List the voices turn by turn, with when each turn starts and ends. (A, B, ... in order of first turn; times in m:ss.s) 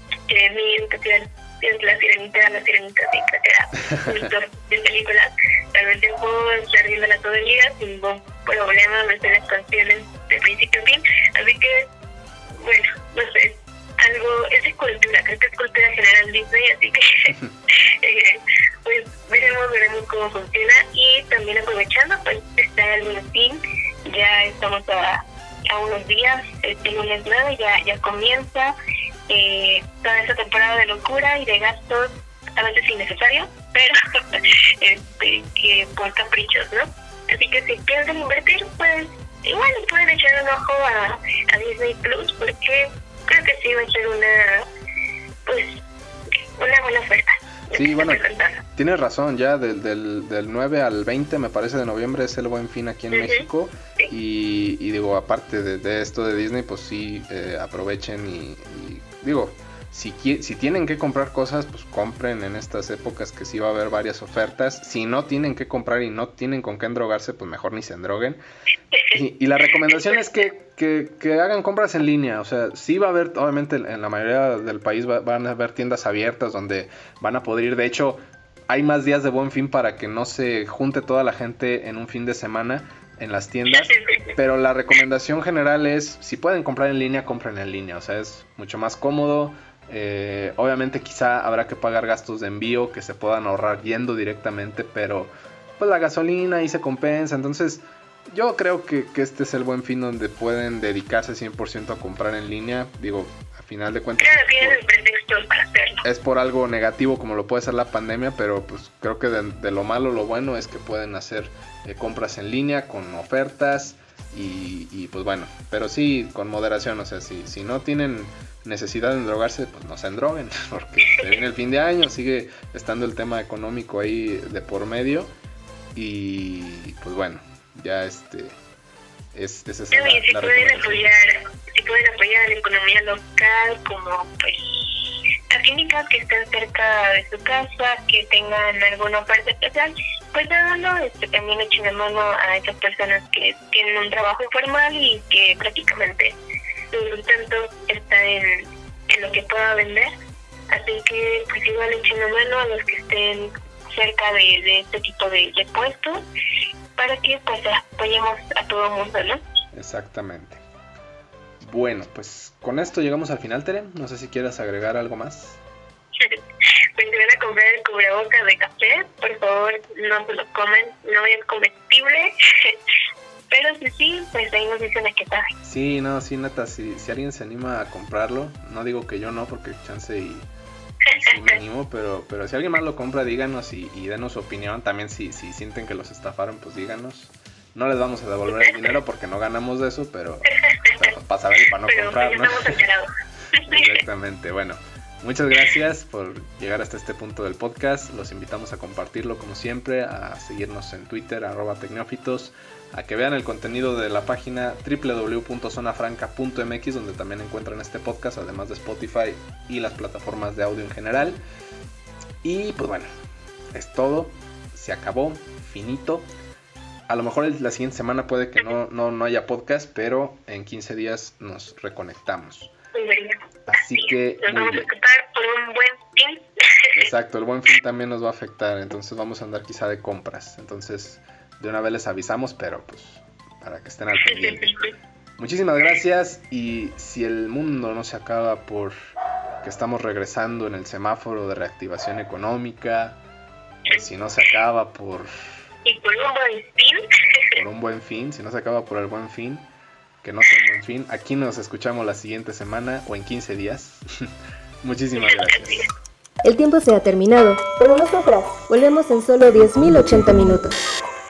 0:00.3-0:11.9 A
0:03.9-0:04.2 B
0:12.6-0:17.4 A
0:18.0-0:28.7 A
0:29.3-0:44.7 A
0:45.4-0:45.8 A
0:46.6-0:48.6 A
0:47.7-1:08.4 B
0:53.1-0:54.1 A
1:09.1-1:44.8 B
1:09.9-1:10.2 A
1:23.7-1:24.4 A
1:44.2-1:46.0 A
1:46.0-2:05.3 B
2:01.1-2:01.4 A
2:05.9-2:08.6 B
2:09.3-2:11.2 B
2:09.9-2:26.4 A
2:26.9-2:30.1 A
2:30.7-2:36.2 A
2:37.0-2:39.4 A
2:39.7-2:40.6 B
2:41.6-2:45.6 B
2:47.0-2:52.8 A
2:53.5-2:55.5 A
2:55.6-3:00.5 B
3:01.1-3:12.8 B
3:08.5-3:08.8 A
3:10.7-3:11.0 A
3:11.8-3:14.0 A
3:13.7-3:31.4 B
3:32.4-3:33.1 B
3:33.7-3:36.2 B
3:37.1-3:42.7 B
3:42.9-3:46.9 A
3:43.7-3:44.9 B
3:46.9-3:54.7 B
3:54.2-3:54.9 A
3:55.4-3:59.0 B
3:59.6-4:03.2 B
4:03.9-4:05.3 B
4:05.8-4:07.6 A
4:07.5-4:09.7 B
4:10.2-4:14.3 B
4:14.8-4:15.9 B
4:15.2-4:15.9 A
4:16.4-4:20.8 C